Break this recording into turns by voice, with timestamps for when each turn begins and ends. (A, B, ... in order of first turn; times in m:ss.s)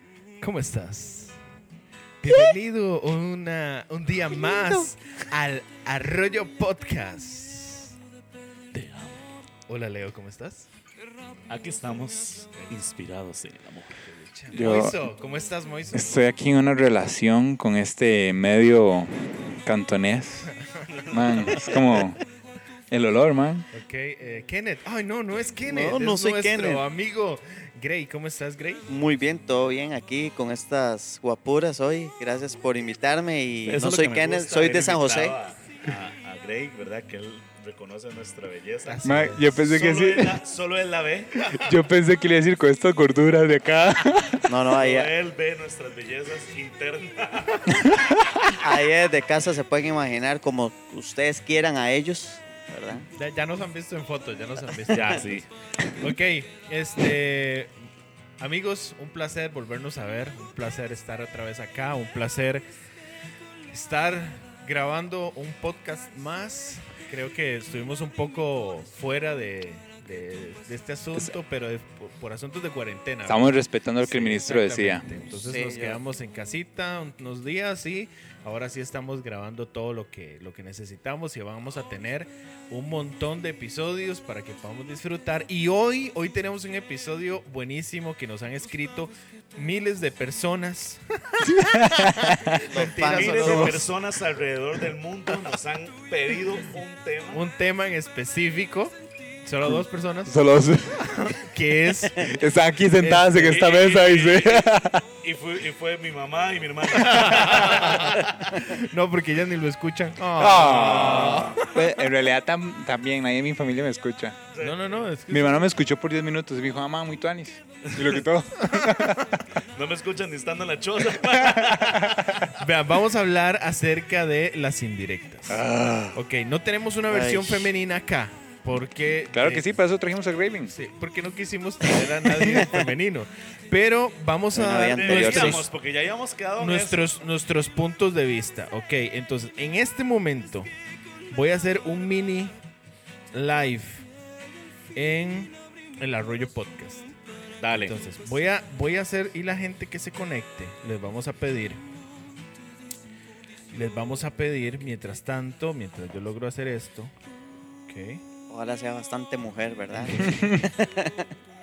0:00.4-0:01.4 A
0:02.2-0:07.9 A
0:04.3-0:04.9 B
0:08.7-0:09.3 C
0:09.7-0:10.7 A
0:11.5-0:14.0 C
0:14.1-0:16.2 A
0:14.5-0:15.1 D
0:15.9-0:20.5 D
0:20.9-0:21.7 C
0:21.1-0:22.2 D
0:22.9-0:23.7 D
0:23.7-0:28.9 A
0:25.7-0:26.8 B
0:28.9-0:35.4 B
0:33.6-0:41.5 C
0:38.8-0:39.5 A
0:39.0-0:40.4 D
0:41.5-0:44.6 D
0:44.5-0:45.1 B
0:44.7-0:47.8 C
0:47.8-0:48.2 D
0:48.5-0:53.1 B
0:53.2-0:55.4 A
0:54.9-0:55.2 B
0:54.9-0:55.4 C
0:56.0-0:57.7 A
0:58.4-1:02.6 A
1:03.7-1:33.9 A
1:13.2-1:15.1 D
1:15.4-1:16.0 B
1:31.4-1:32.6 D
1:32.3-1:33.9 B
1:33.0-1:37.4 C
1:37.3-1:40.4 A
1:39.6-1:41.2 D
1:41.1-1:42.3 A
1:42.1-1:45.0 D
1:43.0-1:43.6 A
1:43.4-1:44.7 C
1:45.2-1:48.4 C
1:46.9-1:51.8 A
1:50.3-1:54.4 D
1:51.0-1:51.4 C
1:54.5-1:55.0 C
1:54.6-1:55.7 A
1:55.3-1:59.4 D
1:58.6-1:59.4 A
1:59.7-2:02.5 C
2:01.5-2:02.2 D
2:02.5-2:09.7 A
2:05.5-2:06.2 D
2:07.1-2:07.7 B
2:09.3-2:10.7 D
2:10.7-2:15.5 A
2:12.5-2:12.7 B
2:14.5-2:15.6 B
2:14.9-2:17.0 C
2:15.0-2:15.7 D
2:16.6-2:20.7 A
2:21.3-2:22.6 A
2:23.3-2:24.1 A
2:24.9-2:27.1 A
2:27.6-2:28.0 C
2:27.8-2:31.8 A
2:33.7-2:37.1 A
2:37.9-2:38.2 A
2:38.5-2:41.3 B
2:40.2-2:40.5 D